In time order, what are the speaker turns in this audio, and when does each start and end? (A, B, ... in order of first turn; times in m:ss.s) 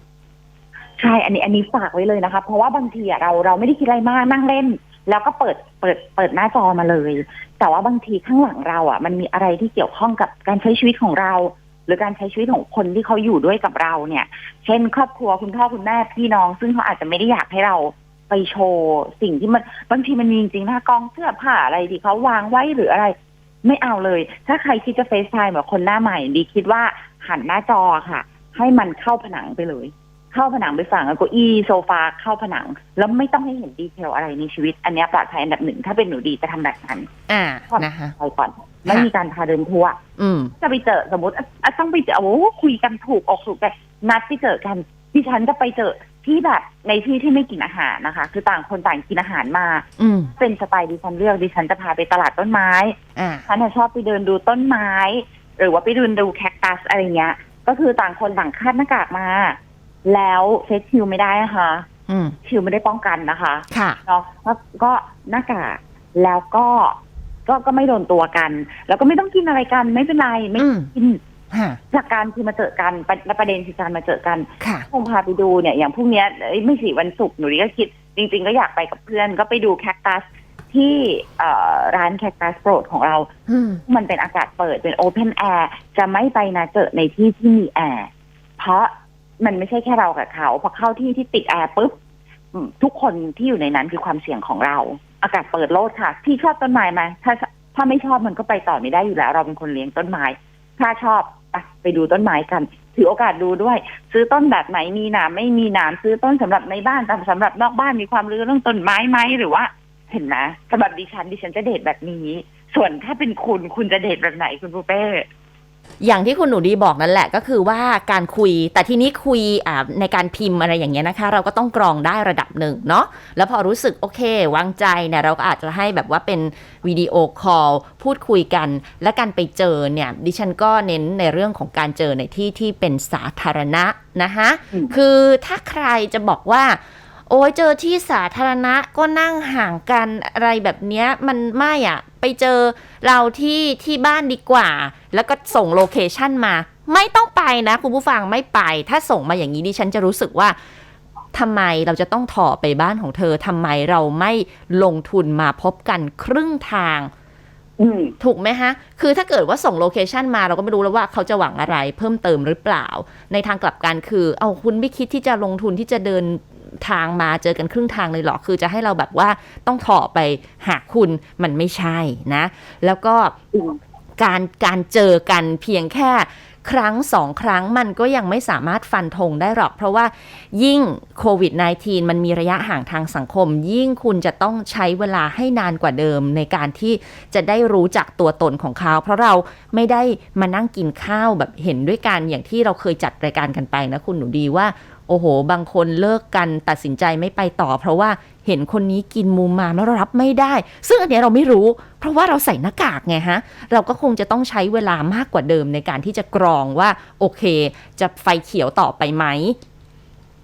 0:01.0-0:37.1 A
0:37.3-0:38.1 B
0:37.7-0:40.0 A
0:40.2-0:40.5 B
0:40.6-0:49.8 A
0:50.0-0:50.3 B
0:50.4-1:01.9 A
0:53.2-0:53.4 B
1:02.1-1:02.4 B
1:02.4-1:11.2 A
1:03.7-1:04.0 B
1:10.6-1:10.9 B
1:11.5-1:11.8 B
1:11.9-1:23.3 A
1:14.6-1:14.9 B
1:23.5-1:23.8 B
1:23.9-1:32.0 A
1:32.5-1:55.3 A
1:56.0-2:30.6 B
2:31.3-2:37.1 B
2:37.8-2:38.1 A
2:38.2-2:53.4 B
2:54.2-3:29.6 B